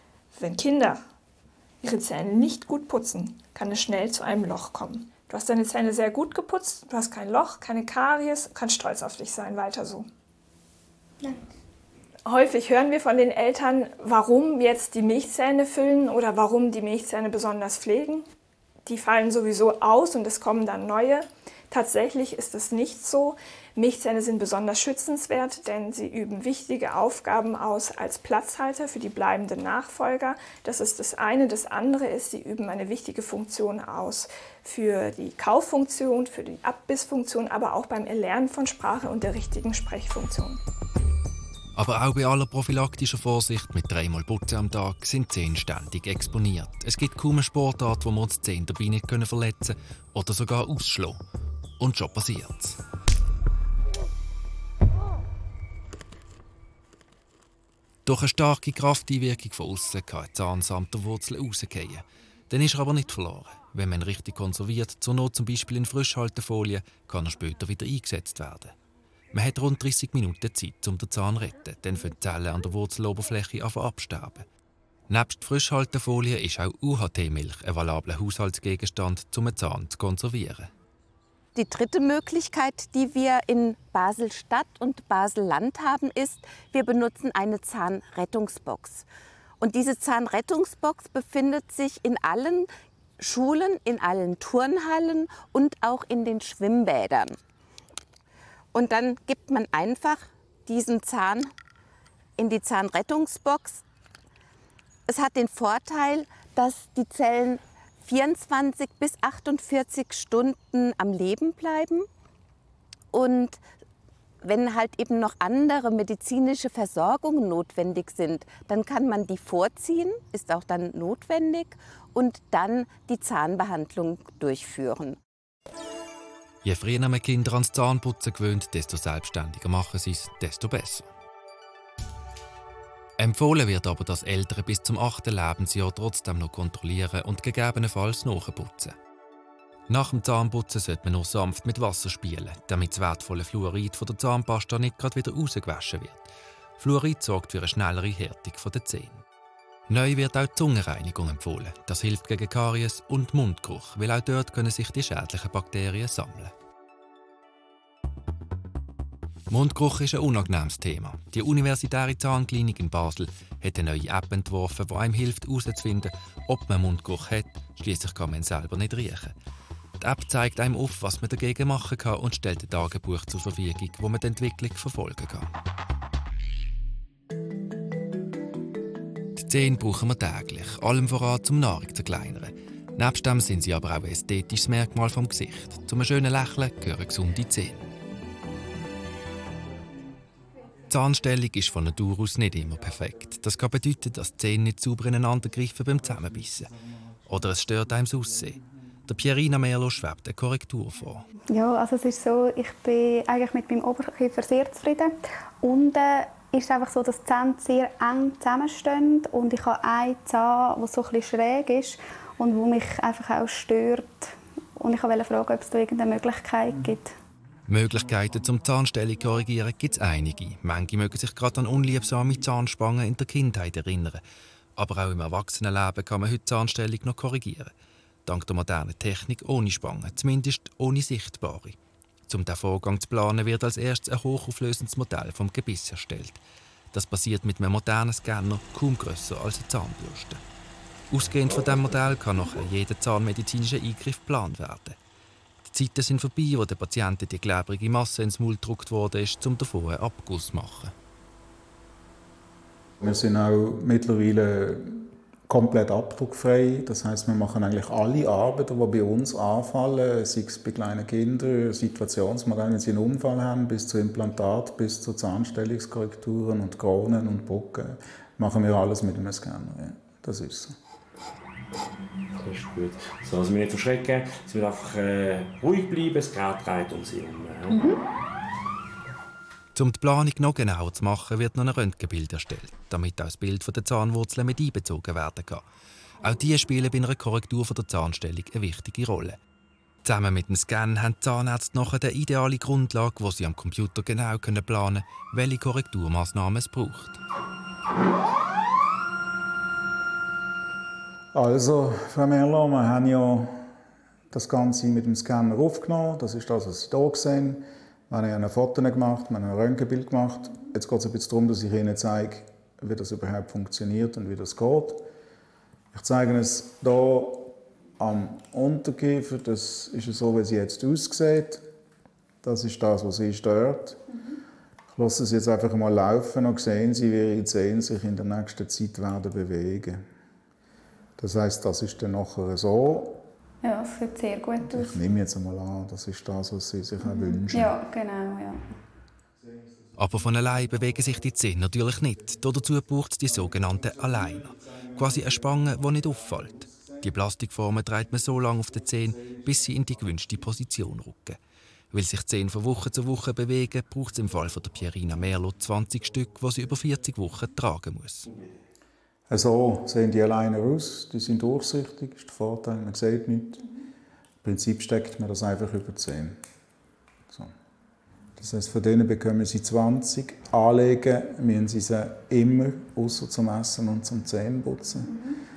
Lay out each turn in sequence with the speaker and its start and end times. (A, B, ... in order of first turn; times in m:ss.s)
0:00.4-0:01.0 A
0:01.8-0:10.1 A
0:12.3-0:18.2 A
0:18.9-0:40.6 A
0:41.8-0:51.2 B
0:51.8-0:52.8 B
0:58.1-1:08.7 B
1:09.3-1:14.5 B
1:15.1-1:20.7 B
1:21.6-1:29.0 C
1:29.6-1:32.7 C
1:33.2-1:37.4 C
1:38.7-1:41.5 C
1:42.4-1:43.8 C
1:45.1-1:52.1 C
1:53.1-1:53.6 C
1:54.4-2:05.2 C
2:06.6-2:11.1 B
2:13.2-2:19.0 B
2:19.9-2:29.2 B
2:29.9-2:36.5 B
2:39.5-2:49.3 B
2:50.0-2:55.5 B
2:59.4-3:07.8 B
3:10.9-3:16.7 B
3:17.3-3:21.3 B
3:21.5-3:37.1 D
3:37.7-3:44.2 B
3:44.8-3:47.7 B
3:48.3-3:51.8 B
3:52.3-4:00.4 B
4:01.1-4:05.0 B
4:05.6-4:10.9 B
4:13.0-4:30.7 E
4:32.4-4:37.8 F
4:39.8-4:45.6 B
4:46.2-4:49.4 B
4:50.0-4:57.2 B
5:01.3-5:03.5 E
5:04.3-5:15.0 E
5:15.9-5:21.6 E
5:22.4-5:24.0 E
5:25.0-5:30.0 E
5:31.2-5:33.2 E
5:33.6-5:35.0 D
5:34.7-5:37.7 E
5:37.0-5:38.6 D
5:40.0-5:51.4 B
5:51.9-5:58.3 B
5:59.3-6:03.6 E
6:04.4-6:06.3 E
6:08.4-6:15.2 E